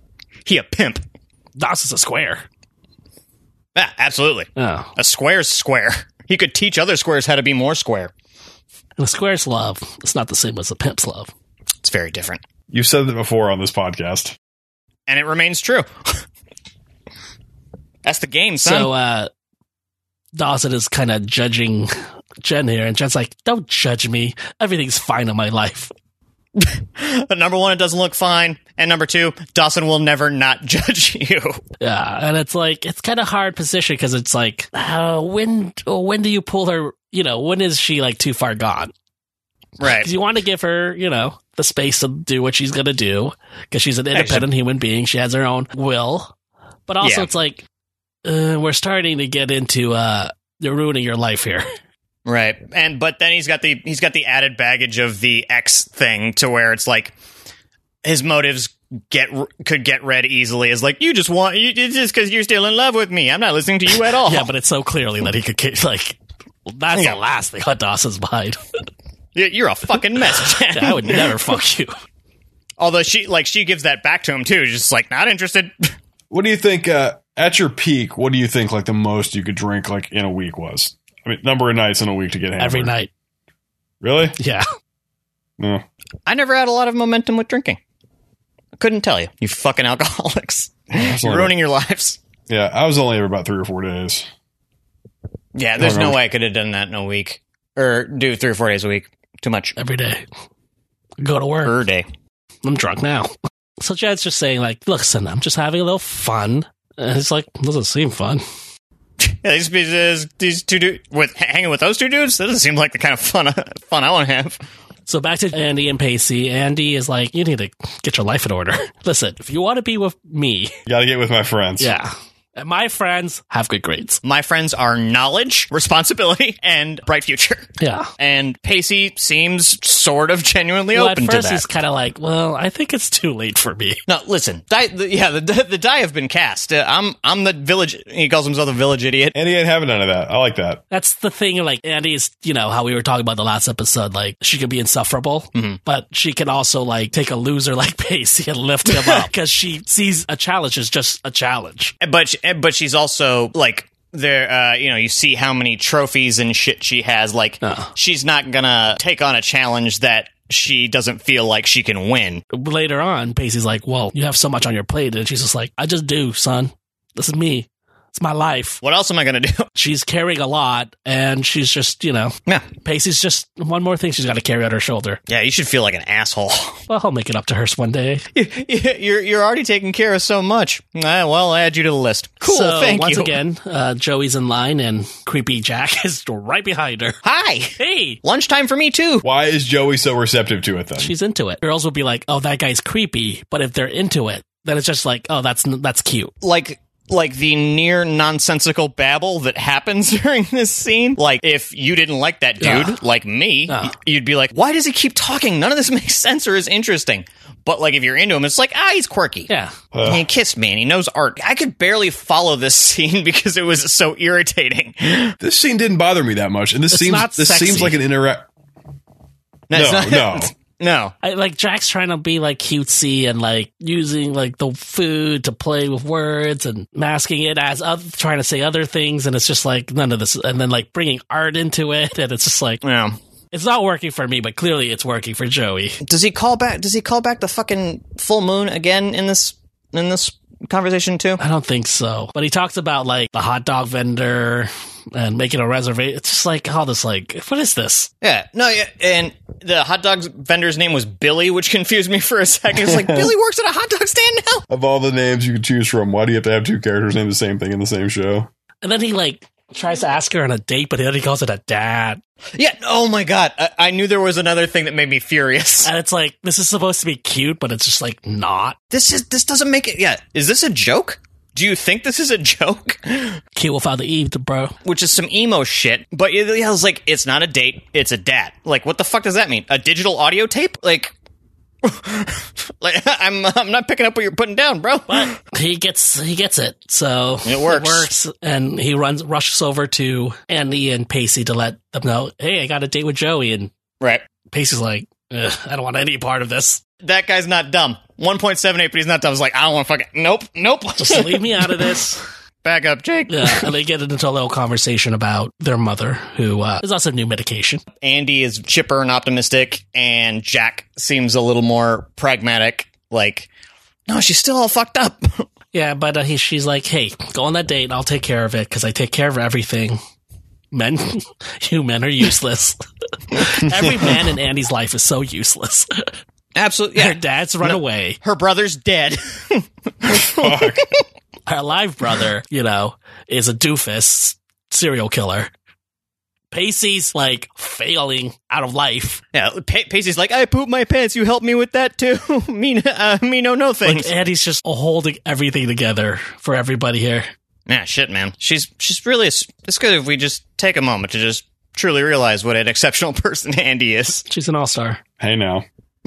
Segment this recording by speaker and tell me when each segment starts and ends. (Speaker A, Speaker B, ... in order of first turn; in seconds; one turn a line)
Speaker A: 0.5-1.0
Speaker B: 1.6-2.4
Speaker A: 3.7-8.1
Speaker B: 4.6-4.9
Speaker B: 9.0-11.3
Speaker A: 11.8-12.4
Speaker C: 12.7-14.3
Speaker A: 15.1-16.2
Speaker A: 18.0-18.9
Speaker B: 18.6-19.3
Speaker B: 20.3-21.9
Speaker B: 22.4-25.9
Speaker A: 26.6-31.6
Speaker B: 31.8-38.9
Speaker A: 39.8-40.1
Speaker B: 39.9-46.3
Speaker A: 44.1-44.5
Speaker B: 46.9-47.6
Speaker A: 47.0-47.3
Speaker B: 48.2-51.6
Speaker A: 52.2-57.1
Speaker A: 58.0-64.5
Speaker B: 64.2-68.6
Speaker A: 66.9-67.2
Speaker A: 69.3-71.4
Speaker B: 70.5-71.9
Speaker A: 72.8-75.9
Speaker C: 76.3-82.9
Speaker B: 82.6-83.1
Speaker C: 84.0-84.4
Speaker B: 84.4-84.7
Speaker C: 85.6-85.8
Speaker A: 86.2-87.8
Speaker A: 88.8-92.2
Speaker C: 90.9-91.6
Speaker C: 92.5-94.3
Speaker A: 95.5-99.7
Speaker C: 95.8-96.2
Speaker B: 99.8-100.2
Speaker B: 101.2-101.7
Speaker A: 101.6-102.0
Speaker B: 102.6-108.4
Speaker A: 109.2-114.6
Speaker B: 115.1-120.7
Speaker C: 120.9-121.9
Speaker B: 121.8-124.2
Speaker A: 124.2-131.6
Speaker B: 127.8-128.1
Speaker B: 130.9-134.0
Speaker A: 134.1-139.3
Speaker C: 139.3-140.8
Speaker B: 140.9-151.9
Speaker A: 148.8-149.3
Speaker A: 152.0-162.4
Speaker B: 157.6-157.9
Speaker B: 162.5-168.8
Speaker A: 168.8-169.7
Speaker B: 169.8-175.2
Speaker A: 175.3-176.8
Speaker B: 176.9-178.2
Speaker A: 178.3-183.3
Speaker B: 182.4-187.2
Speaker A: 187.2-189.2
Speaker B: 187.8-188.2
Speaker C: 189.2-191.1
Speaker B: 191.0-196.3
Speaker A: 196.4-209.5
Speaker B: 202.6-203.0
Speaker B: 209.5-209.7
Speaker C: 209.9-210.2
Speaker A: 210.0-215.3
Speaker C: 215.4-218.5
Speaker B: 216.9-218.0
Speaker A: 219.7-221.1
Speaker C: 219.7-220.5
Speaker B: 221.2-232.8
Speaker A: 232.8-233.2
Speaker B: 233.5-236.0
Speaker A: 236.0-241.4
Speaker B: 241.4-248.1
Speaker A: 248.2-254.6
Speaker C: 252.8-253.3
Speaker C: 254.7-258.5
Speaker B: 258.8-262.2
Speaker A: 262.5-265.9
Speaker B: 265.8-268.8
Speaker A: 268.9-273.4
Speaker B: 273.6-274.7
Speaker A: 274.8-281.1
Speaker A: 281.8-285.3
Speaker B: 285.1-293.7
Speaker A: 287.4-288.1
Speaker B: 294.5-296.8
Speaker A: 297.0-301.9
Speaker B: 301.0-302.2
Speaker A: 302.6-303.7
Speaker B: 303.3-307.8
Speaker A: 308.0-313.5
Speaker A: 314.1-315.5
Speaker B: 315.7-320.0
Speaker B: 320.7-322.8
Speaker B: 323.3-326.1
Speaker A: 326.5-331.0
Speaker B: 326.9-328.2
Speaker C: 330.1-330.9
Speaker B: 331.5-335.5
Speaker B: 336.5-339.2
Speaker A: 339.3-344.1
Speaker B: 343.8-347.3
Speaker A: 347.7-354.2
Speaker B: 354.3-355.0
Speaker C: 355.2-355.6